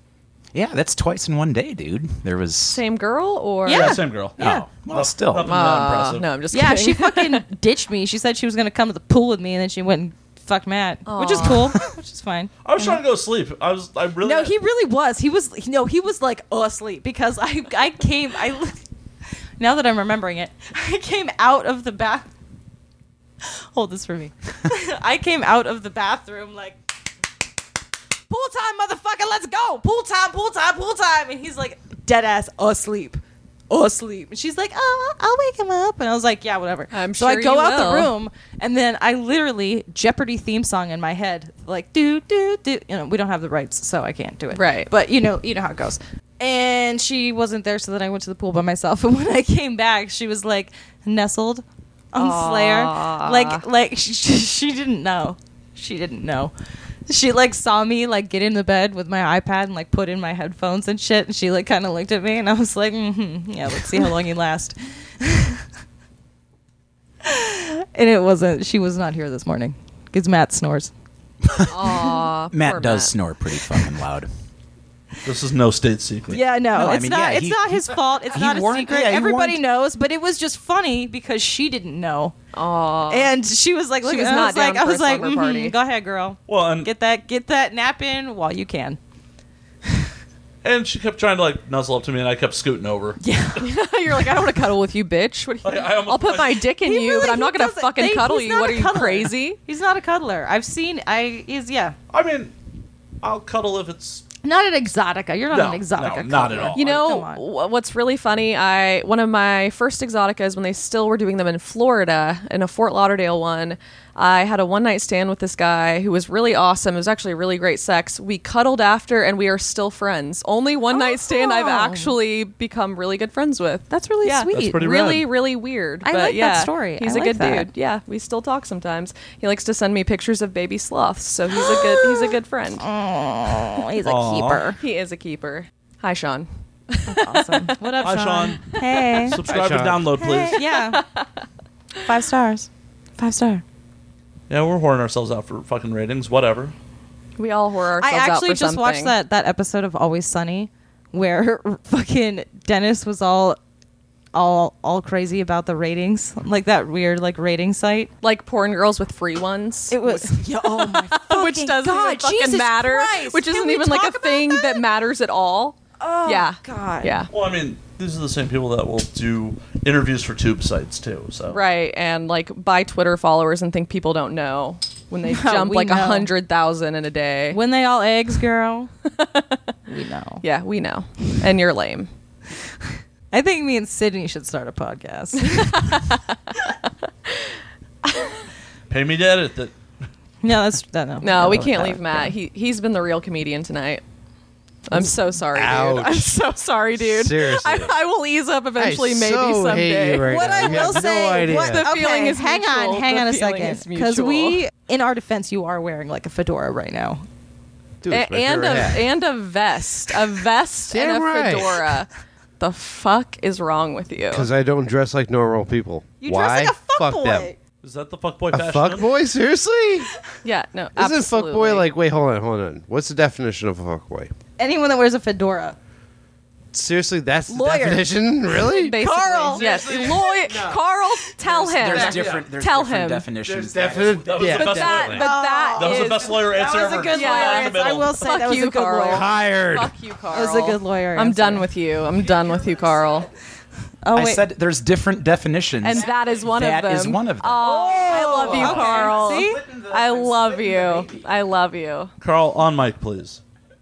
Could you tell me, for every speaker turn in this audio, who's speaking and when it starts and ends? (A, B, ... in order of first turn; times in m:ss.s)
0:00.5-0:02.8 A
0:02.7-0:04.0 B
0:03.6-0:04.6 C
0:03.7-0:06.3 D
0:04.4-0:05.7 A
0:05.5-0:07.4 B
0:06.5-0:12.5 C
0:11.1-0:11.9 B
0:12.6-0:14.5 D
0:14.2-0:18.8 C
0:19.6-0:22.3 C
0:23.4-0:26.8 C
0:28.3-0:56.5 C
0:36.9-0:38.1 B
0:44.5-0:44.9 B
0:52.2-0:53.6 B
0:57.1-1:05.6 C
1:07.2-1:10.9 C
1:11.5-1:14.3 A
1:11.7-1:13.2 B
1:15.2-1:16.4 D
1:16.3-1:19.6 A
1:16.3-1:22.4 C
1:22.5-1:23.3 B
1:23.1-1:29.0 C
1:24.0-1:25.8 B
1:26.5-1:26.9 D
1:30.6-1:33.2 D
1:33.2-1:33.6 C
1:33.6-1:39.6 B
1:35.6-1:36.7 D
1:36.8-1:42.0 C
1:42.1-1:42.5 D
1:43.2-1:44.2 D
1:44.4-1:47.4 C
1:45.5-1:46.9 D
1:46.7-2:12.8 B
2:00.9-2:02.1 C
2:03.9-2:04.8 C
2:04.5-2:05.3 D
2:06.0-2:07.7 C
2:11.7-2:12.0 C
2:12.8-2:14.8 C
2:14.0-2:14.7 D
2:14.8-2:18.2 B
2:17.1-2:19.4 C
2:18.0-2:18.7 D
2:18.7-2:19.2 B
2:19.3-2:20.6 D
2:19.4-2:20.4 E
2:20.2-2:21.0 C
2:20.6-2:21.3 B
2:22.0-2:23.6 C
2:24.5-2:26.7 D
2:27.4-2:29.2 B
2:28.0-2:33.6 C
2:34.3-2:38.1 C
2:38.2-2:47.3 B
2:39.9-2:44.8 C
2:46.0-2:47.2 C
2:47.3-2:51.6 D
2:51.5-2:57.6 B
2:55.2-2:56.3 C
2:57.5-2:58.9 C
2:59.2-2:59.6 B
2:59.9-3:00.4 C
3:00.4-3:02.1 B
3:03.3-3:05.9 C
3:05.5-3:06.7 B
3:08.0-3:08.4 B
3:08.9-3:09.8 D
3:10.4-3:12.4 C
3:11.2-3:14.0 B
3:14.9-3:24.6 B
3:15.0-3:16.4 E
3:17.0-3:18.0 E
3:18.8-3:21.9 E
3:20.2-3:27.2 C
3:28.0-3:29.1 E
3:28.1-3:34.5 B
3:30.9-3:32.0 E
3:34.3-3:37.5 E
3:36.2-3:37.6 C
3:37.8-3:39.1 D
3:38.5-3:40.1 E
3:40.4-3:41.9 B
3:41.0-3:44.3 E
3:44.6-3:45.8 C
3:46.7-3:49.0 E
3:47.5-3:48.1 C
3:48.6-3:53.3 B
3:48.9-3:50.0 C
3:49.6-3:50.8 E
3:51.5-3:54.6 A
3:51.8-3:52.5 E
3:53.4-3:55.2 E
3:54.2-3:58.3 D
3:54.4-4:03.3 B
3:55.2-3:59.3 C
3:59.1-3:59.9 E
4:00.3-4:01.7 C
4:04.0-4:04.5 C
4:04.1-4:11.2 A
4:05.8-4:12.1 B
4:07.6-4:09.6 C
4:12.2-4:13.4 D